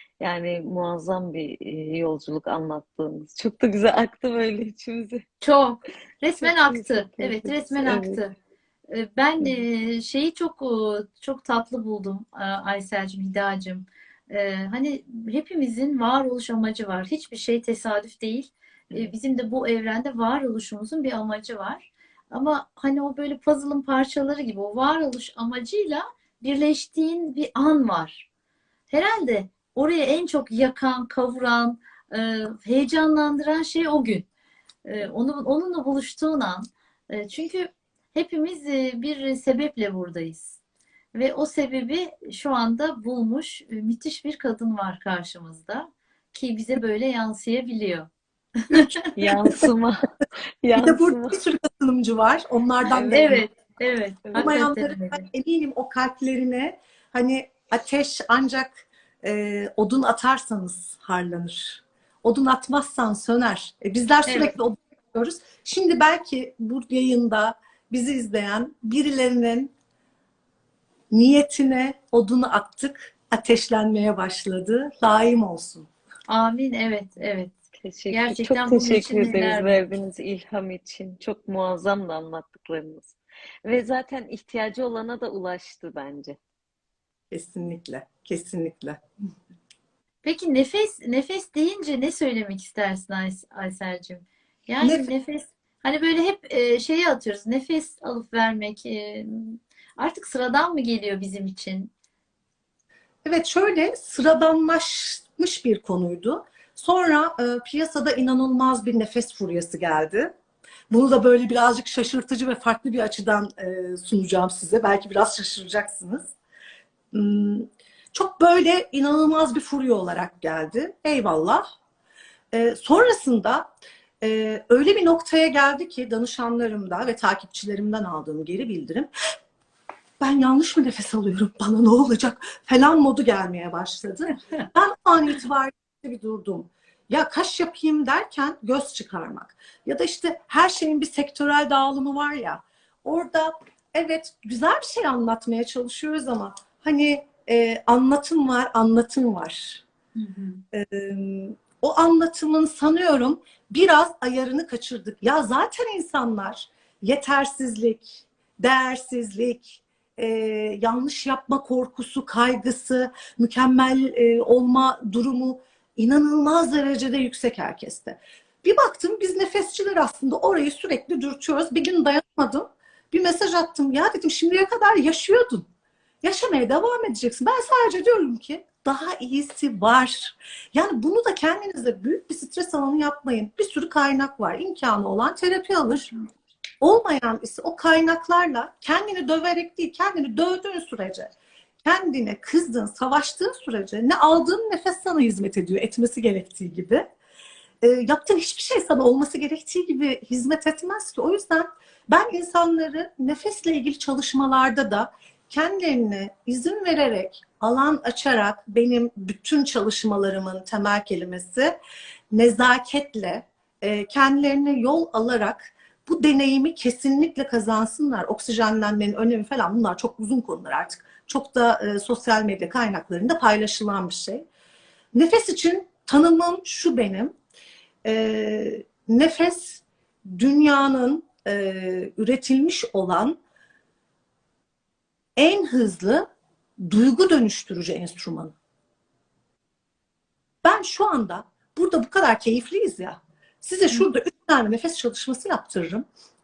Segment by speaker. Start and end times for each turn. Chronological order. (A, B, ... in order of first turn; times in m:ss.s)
0:00.2-0:05.2 A
0:05.4-0:08.3 B
0:06.4-0:08.2 A
0:08.9-0:28.2 B
0:28.9-0:34.2 B
0:34.9-0:40.6 B
0:41.1-0:48.1 B
0:48.7-0:49.1 B
0:49.2-0:50.0 A
0:50.6-0:51.4 A
0:50.8-0:53.4 C
0:52.9-0:53.3 A
0:53.1-0:55.2 B
0:54.2-0:54.6 A
0:54.4-1:09.7 C
1:04.2-1:04.5 B
1:11.1-1:15.9 C
1:16.3-1:17.5 B
1:17.8-1:26.4 A
1:18.1-1:19.8 B
1:27.3-1:29.0 C
1:30.2-1:41.9 B
1:34.8-1:35.1 C
1:43.2-1:50.3 C
1:50.9-1:56.4 C
1:57.1-2:01.6 C
2:02.5-2:03.7 C
2:04.2-2:09.1 C
2:10.2-2:29.8 C
2:30.2-2:30.6 B
2:30.7-2:55.7 C
2:56.2-3:06.1 C
3:06.8-3:11.3 C
3:11.8-3:17.1 C
3:17.8-3:31.8 C
3:32.3-3:44.4 C
3:45.1-3:47.3 C
3:48.0-3:53.4 C
3:55.4-3:56.2 C
3:56.8-3:58.6 C
4:00.6-4:06.0 C